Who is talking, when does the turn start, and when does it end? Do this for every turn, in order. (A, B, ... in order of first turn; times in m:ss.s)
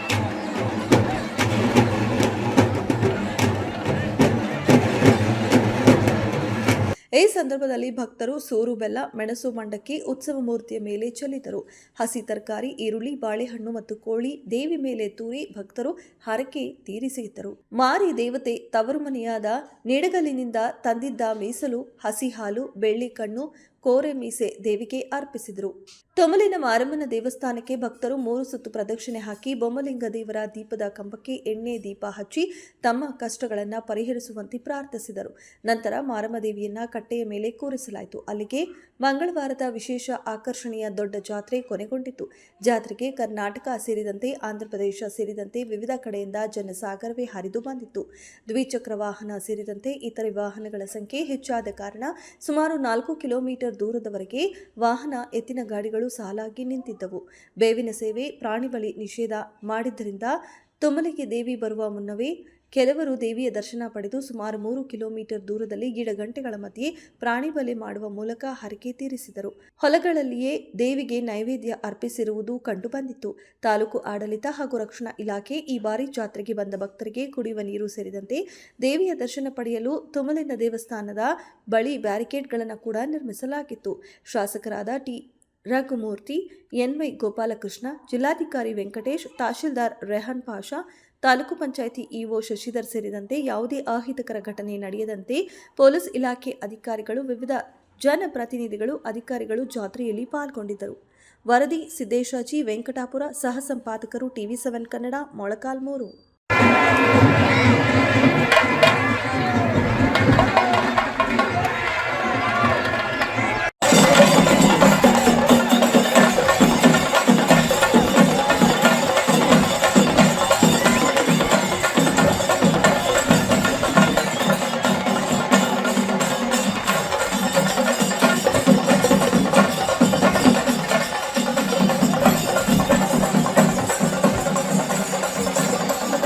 0:07.2-1:41.0 A
1:41.5-1:46.2 A